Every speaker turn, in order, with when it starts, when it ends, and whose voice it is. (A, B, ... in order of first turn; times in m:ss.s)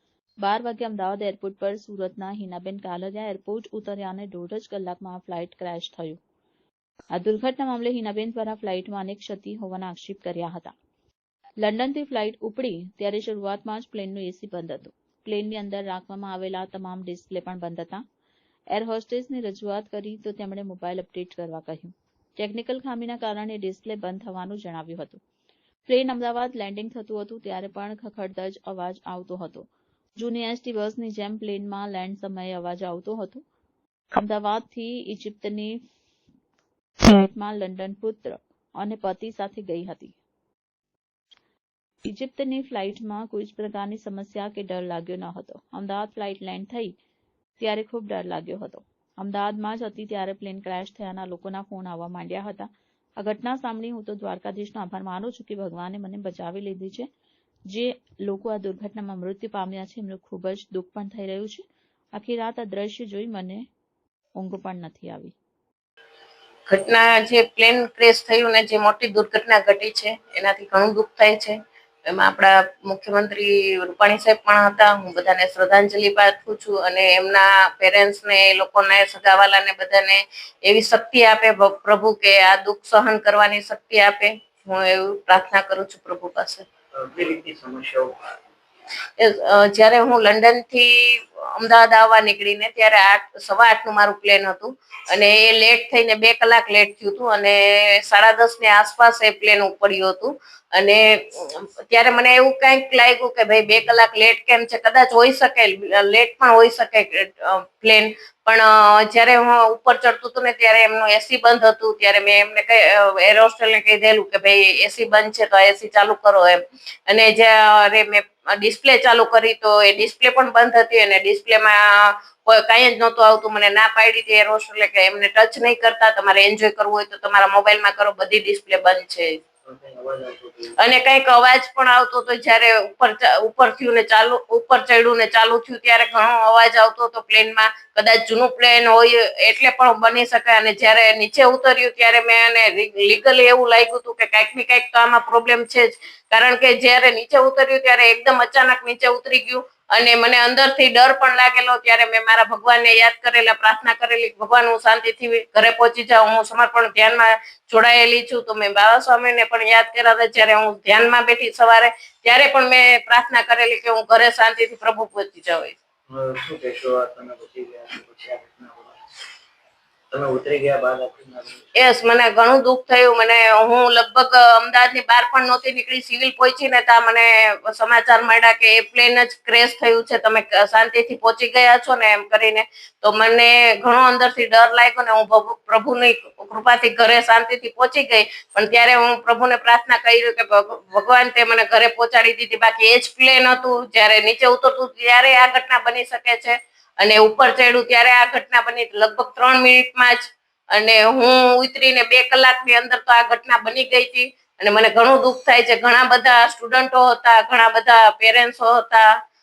0:00.4-0:06.2 A
0:07.1-0:10.7 A
0:11.6-0:18.0 A
0:18.7-0:25.2 A
0:25.9-0:33.4 A
0:34.1-0:35.8 A
0:37.0-0:40.2 A
0:42.0-0:46.9 A
0:47.6-0:57.1 A
0:57.7-1:03.6 A
1:04.4-1:05.3 A
1:06.7-1:11.6 B
1:12.1-1:26.6 B
1:27.0-1:28.3 C
1:29.2-2:09.4 B
2:09.6-2:10.8 C
2:10.8-2:45.8 B
2:46.1-2:49.0 C
2:50.1-2:51.7 C
2:51.8-3:29.1 B